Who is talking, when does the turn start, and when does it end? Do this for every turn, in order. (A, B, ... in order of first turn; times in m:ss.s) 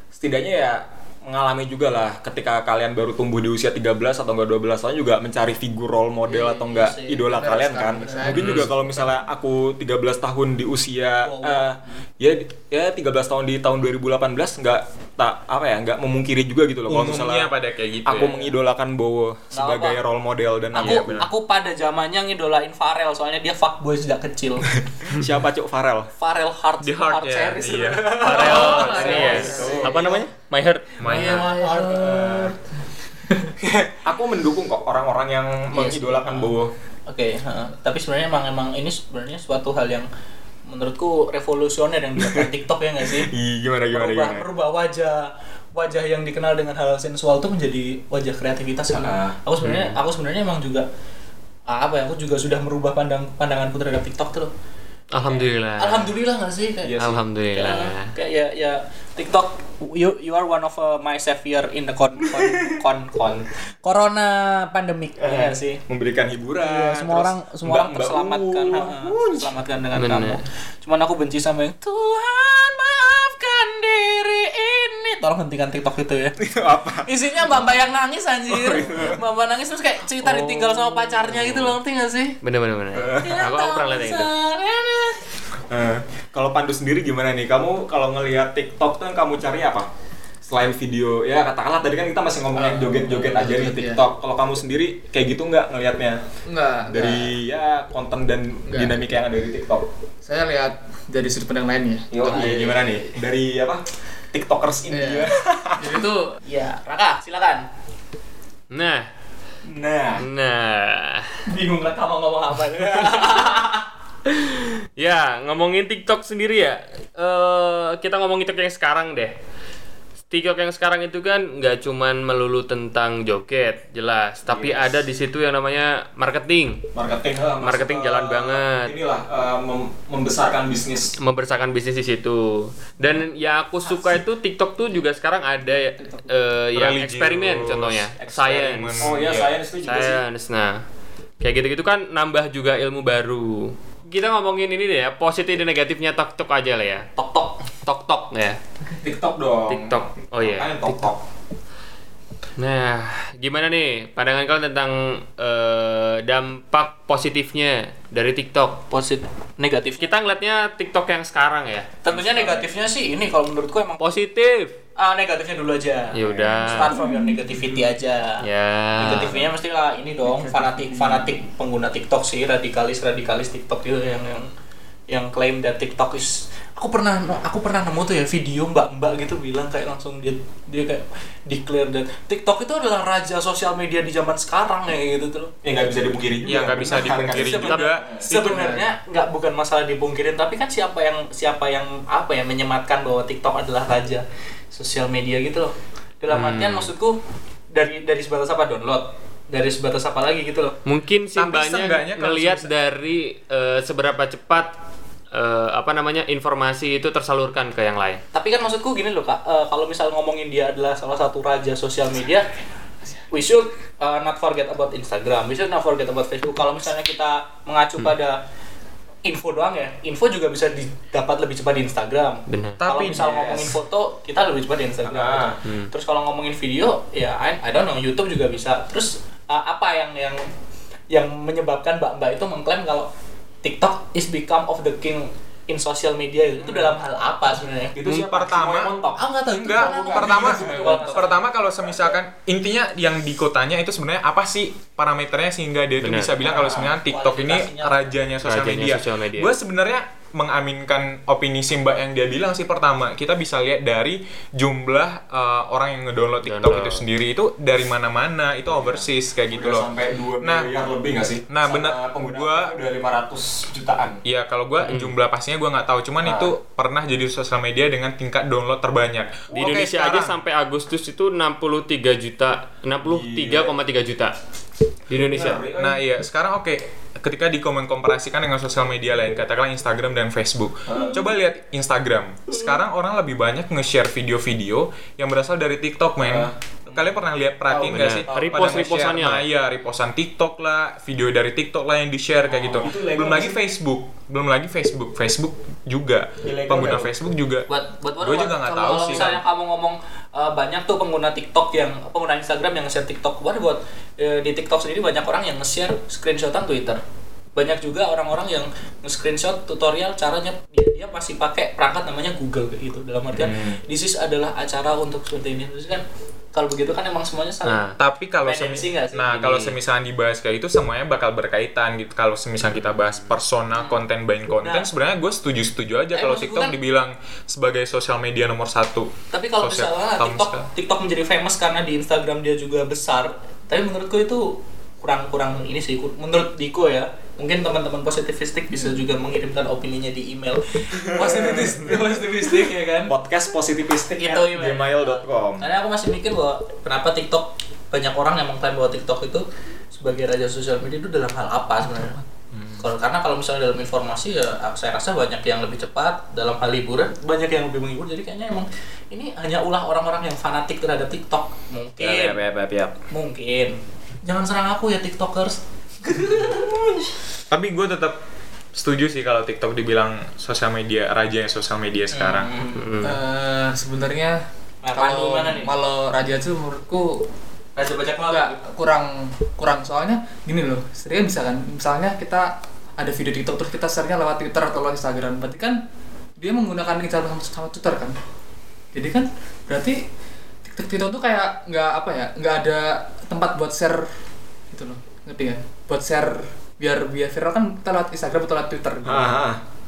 0:00.1-0:17.5 A
0:06.3-0:07.2 B
0:07.2-0:08.7 C
0:08.0-0:08.4 B
0:08.3-0:08.7 D
0:11.2-0:12.0 B
0:16.9-0:18.4 E
0:18.0-0:21.3 A
0:19.5-0:20.0 B
0:20.7-0:21.3 E
0:20.7-0:24.7 B
0:25.0-0:26.1 A
0:26.2-0:30.2 B
0:26.8-0:28.6 E
0:28.2-0:30.9 D
0:28.3-0:29.9 C
0:28.9-0:30.2 A
0:31.0-0:31.6 E
0:31.0-0:32.5 B
0:31.1-0:32.5 C
0:31.9-0:32.6 A
0:33.9-0:36.7 A
0:35.7-0:36.5 B
0:37.1-0:40.1 B
0:40.7-0:43.3 B
0:42.2-0:42.5 A
0:43.0-0:44.4 A
0:43.9-0:50.9 B
0:48.9-0:49.4 A
0:49.6-0:50.0 D
0:51.7-0:54.5 B
0:55.1-0:56.1 D
0:55.2-1:05.8 B
0:56.8-0:57.2 A
0:57.0-0:58.1 D
1:02.4-1:02.7 A
1:05.2-1:09.5 A
1:06.6-1:16.4 B
1:09.9-1:10.4 D
1:16.4-1:17.6 A
1:17.0-1:22.4 B
1:18.5-1:19.2 A
1:20.2-1:21.8 D
1:22.4-1:24.3 D
1:23.0-1:23.4 A
1:23.1-1:25.2 B
1:25.7-1:29.9 A
1:30.5-1:36.2 A
1:32.6-1:34.0 C
1:36.5-1:37.3 C
1:36.9-1:39.8 A
1:38.7-1:39.0 C
1:40.2-1:42.7 C
1:42.1-1:46.0 A
1:44.9-1:46.4 C
1:46.4-1:47.6 B
1:48.7-1:49.1 D
1:49.6-1:50.3 A
1:50.2-1:51.4 D
1:51.5-1:53.8 B
1:54.2-1:59.3 D
2:00.3-2:06.9 D
2:04.5-2:05.0 A
2:06.9-2:11.2 A
2:07.6-2:08.9 D
2:11.2-2:19.2 D
2:15.7-2:16.3 B
2:16.8-2:19.5 E
2:18.2-2:20.2 A
2:19.8-2:20.8 D
2:21.4-2:27.1 D
2:27.2-2:27.5 B
2:27.8-2:28.6 D
2:29.0-2:31.2 A
2:29.7-2:31.1 D
2:32.6-2:38.8 D
2:38.9-2:40.1 B
2:40.0-2:42.0 D
2:42.0-2:44.1 B
2:42.1-2:42.7 A
2:44.0-2:44.8 D
2:45.0-2:48.5 B
2:46.1-2:47.0 D
2:46.3-2:46.7 A
2:48.4-2:49.5 D
2:49.0-2:54.5 B
2:55.1-3:05.5 B
3:05.6-3:08.2 A
3:06.4-3:08.8 E
3:07.0-3:17.2 B
3:08.4-3:08.8 C
3:16.3-3:16.9 D
3:17.7-3:20.8 B
3:20.8-3:24.7 D
3:21.4-3:22.7 E
3:25.3-3:28.2 D
3:28.3-3:32.5 B
3:33.3-3:38.4 B
3:39.2-3:50.5 B
3:42.5-3:42.8 D
3:42.8-3:43.2 E
3:43.1-3:43.8 A
3:45.0-3:45.6 A
3:51.1-3:53.1 B
3:53.6-3:58.0 B
3:58.0-4:01.4 A
3:58.0-3:59.0 E
3:59.1-4:01.5 B
3:59.5-4:19.9 E
4:06.0-4:06.5 D
4:06.4-4:08.1 B
4:08.4-4:09.5 D
4:16.4-4:17.0 D
4:18.7-4:24.2 A
4:20.4-4:20.7 E
4:21.5-4:22.7 E
4:24.2-4:30.4 E
4:24.8-4:25.1 D
4:26.2-4:26.5 A
4:29.5-4:34.4 D
4:33.0-4:33.7 A
4:35.1-4:35.6 D
4:35.1-4:36.0 A
4:35.7-4:59.4 E
4:40.9-4:41.3 A
4:46.2-4:47.0 A
4:47.7-4:49.0 A
4:47.9-4:49.5 D
4:52.6-4:53.6 A
4:56.4-4:57.1 A
4:57.7-5:07.0 B
4:58.7-4:59.4 C
5:07.5-5:19.3 B
5:13.3-5:13.8 A
5:17.6-5:18.0 D
5:18.0-5:30.7 E
5:19.3-5:19.8 D
5:24.6-5:24.9 B
5:26.1-5:26.8 B
5:29.3-5:43.1 B
5:41.1-5:45.7 A
5:44.1-5:52.2 B
5:52.8-6:02.4 B
6:02.0-6:03.0 A
6:03.1-6:07.1 B
6:07.5-6:08.2 E
6:08.7-6:12.5 E
6:12.1-6:13.0 B
6:12.8-6:13.2 D
6:13.0-6:14.4 C
6:14.8-6:15.7 B
6:14.9-6:17.2 C
6:17.8-6:18.6 B
6:18.2-6:25.8 C
6:26.4-6:28.2 C
6:28.9-6:30.0 C
6:30.7-6:34.1 C
6:34.7-6:39.4 C
6:39.0-6:39.6 A